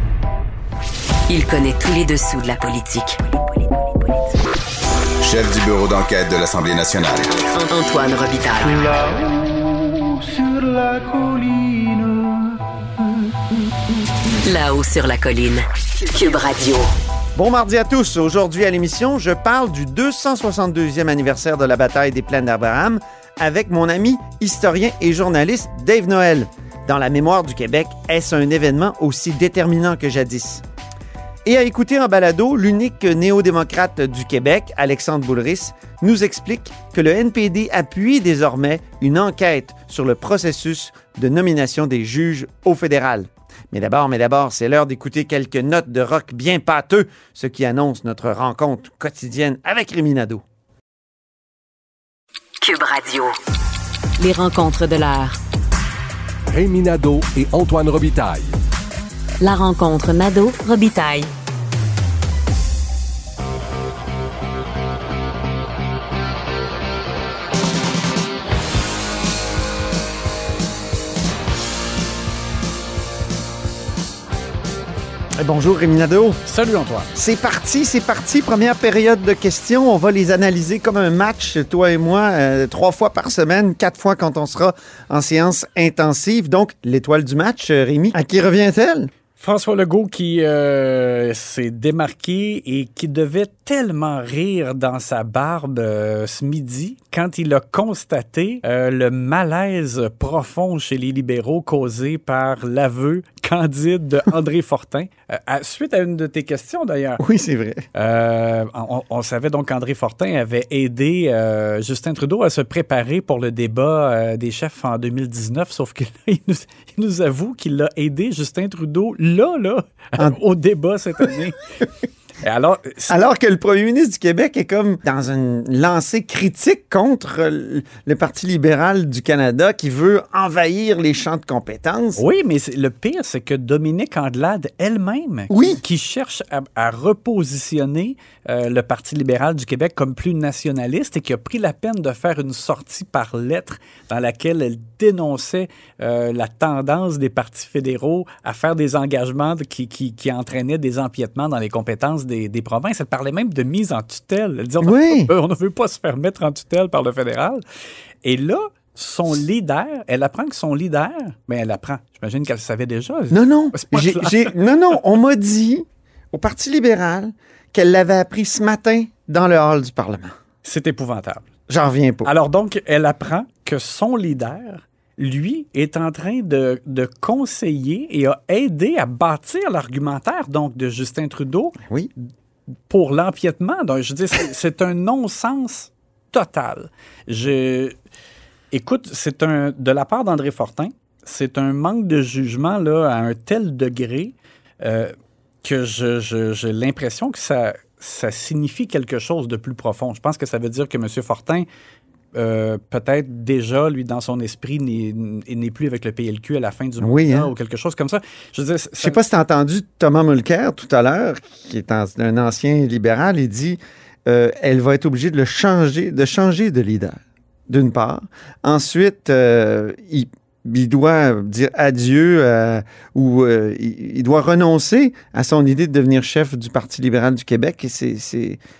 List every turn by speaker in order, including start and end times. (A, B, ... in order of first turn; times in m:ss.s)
0:01.3-0:04.1 A
0:05.2-0:07.4 B
0:07.5-0:09.3 A
0:14.4-0:16.9 A
0:17.4-0:30.6 C
0:31.4-0:50.4 C
0:52.6-0:53.4 A
0:54.2-0:55.4 A
0:56.5-0:58.5 D
0:59.4-1:01.3 A
1:15.4-1:16.4 C
1:16.4-1:17.1 E
1:17.1-1:29.1 C
1:29.4-1:47.2 E
1:47.2-1:47.9 C
1:47.9-2:01.6 E
2:02.4-2:03.2 E
2:03.1-2:12.2 C
2:12.2-2:37.6 E
2:15.5-2:15.8 C
2:34.8-2:35.3 C
2:38.2-2:44.6 E
2:43.3-2:50.3 C
2:50.6-2:51.5 E
2:51.7-2:52.3 C
2:52.2-3:01.8 E
3:01.8-3:02.1 C
3:02.9-3:08.0 E
3:08.7-3:21.7 E
3:22.3-3:29.2 E
3:27.0-3:27.5 C
3:29.0-3:37.2 C
3:37.7-3:48.6 C